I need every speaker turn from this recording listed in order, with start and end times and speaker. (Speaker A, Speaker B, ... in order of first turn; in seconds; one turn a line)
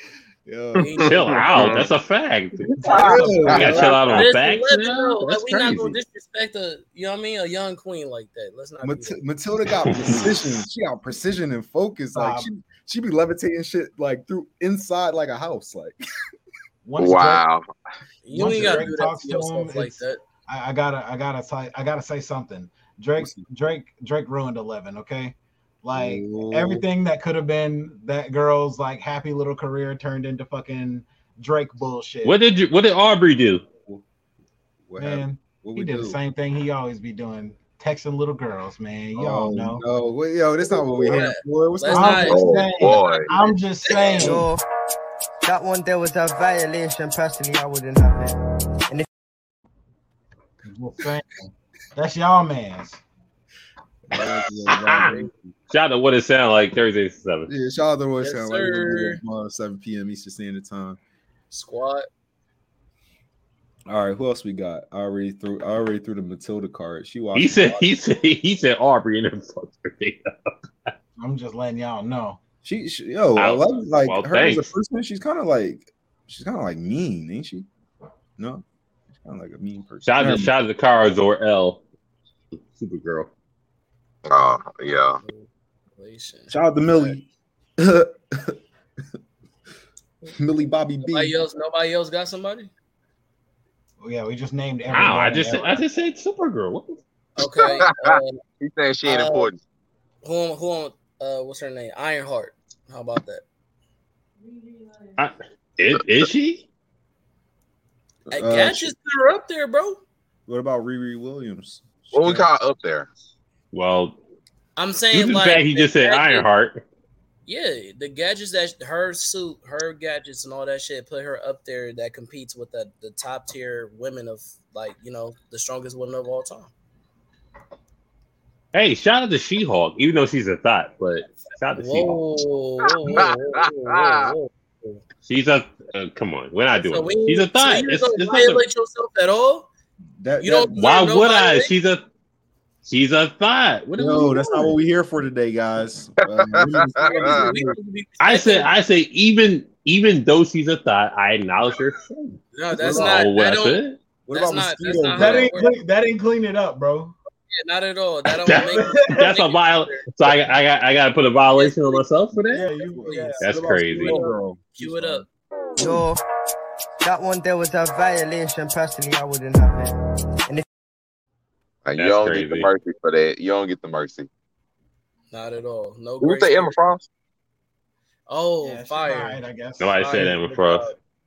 Speaker A: 0.5-1.9
Speaker B: 0.8-1.9
Speaker C: 0.8-1.8
Speaker D: 1.1-2.8
Speaker B: 2.7-4.1
Speaker E: 2.8-3.9
Speaker A: 3.0-4.3
Speaker D: 3.5-5.4
Speaker C: 3.8-9.2
Speaker A: 5.3-6.0
Speaker A: 8.8-16.0
Speaker E: 12.2-12.5
Speaker E: 16.9-17.4
Speaker B: 17.0-17.6
Speaker C: 18.2-20.2
Speaker E: 18.3-32.4
Speaker A: 18.4-18.9
Speaker A: 23.2-23.4
Speaker A: 25.9-26.9
Speaker D: 32.2-33.7
Speaker A: 34.9-36.2
Speaker E: 35.0-39.8
Speaker A: 39.2-42.7
Speaker C: 40.7-44.3
Speaker E: 41.9-44.5
Speaker B: 42.3-43.3
Speaker A: 44.2-44.5
Speaker F: 44.2-44.6
Speaker F: 45.4-48.4
Speaker E: 50.7-53.0
Speaker A: 54.1-55.3
Speaker D: 54.1-55.1
Speaker C: 55.0-55.3
Speaker D: 55.7-57.5
Speaker A: 57.5-61.0
Speaker C: 58.2-59.2
Speaker C: 61.5-62.1
Speaker A: 63.9-67.9
Speaker D: 67.3-70.5
Speaker E: 71.2-72.4
Speaker A: 72.6-77.7
Speaker D: 73.4-74.7
Speaker A: 78.4-78.6
Speaker A: 79.2-80.5
Speaker D: 80.0-81.8
Speaker D: 82.5-83.3
Speaker B: 84.3-85.2
Speaker C: 85.2-87.1
Speaker A: 86.5-87.3
Speaker A: 87.8-88.6
Speaker A: 90.3-91.4
Speaker C: 91.0-92.7
Speaker E: 94.0-95.8
Speaker D: 94.9-97.0
Speaker C: 97.4-98.4
Speaker B: 97.6-99.6
Speaker C: 99.1-99.5
Speaker C: 100.2-103.4
Speaker D: 105.2-106.7
Speaker A: 108.3-109.0
Speaker C: 108.3-110.0
Speaker A: 110.5-112.5
Speaker B: 112.1-113.1
Speaker D: 113.7-114.2
Speaker C: 114.8-116.5
Speaker D: 115.1-116.8
Speaker C: 117.5-126.7
Speaker D: 128.7-132.2
Speaker C: 131.8-135.0
Speaker B: 132.9-134.3
Speaker D: 135.3-138.6
Speaker C: 136.7-139.7
Speaker A: 140.2-141.1
Speaker C: 140.4-141.7
Speaker D: 140.8-142.0
Speaker D: 142.8-144.7
Speaker A: 143.9-147.8
Speaker B: 146.2-147.5
Speaker C: 146.9-148.7
Speaker D: 148.2-154.0
Speaker C: 152.5-155.8
Speaker A: 152.8-153.3
Speaker A: 154.3-155.6
Speaker E: 155.1-157.2
Speaker C: 157.5-160.3
Speaker D: 158.3-162.7
Speaker E: 158.7-159.3
Speaker C: 161.5-162.0
Speaker E: 162.5-163.5
Speaker A: 162.9-165.2
Speaker C: 163.1-165.2
Speaker D: 163.4-164.2
Speaker F: 165.8-166.2
Speaker F: 167.0-169.9
Speaker B: 171.8-174.3
Speaker D: 172.0-172.7
Speaker C: 175.3-176.8
Speaker B: 176.2-177.1
Speaker C: 178.3-179.4
Speaker E: 178.6-180.8
Speaker D: 179.8-180.9
Speaker C: 180.0-180.7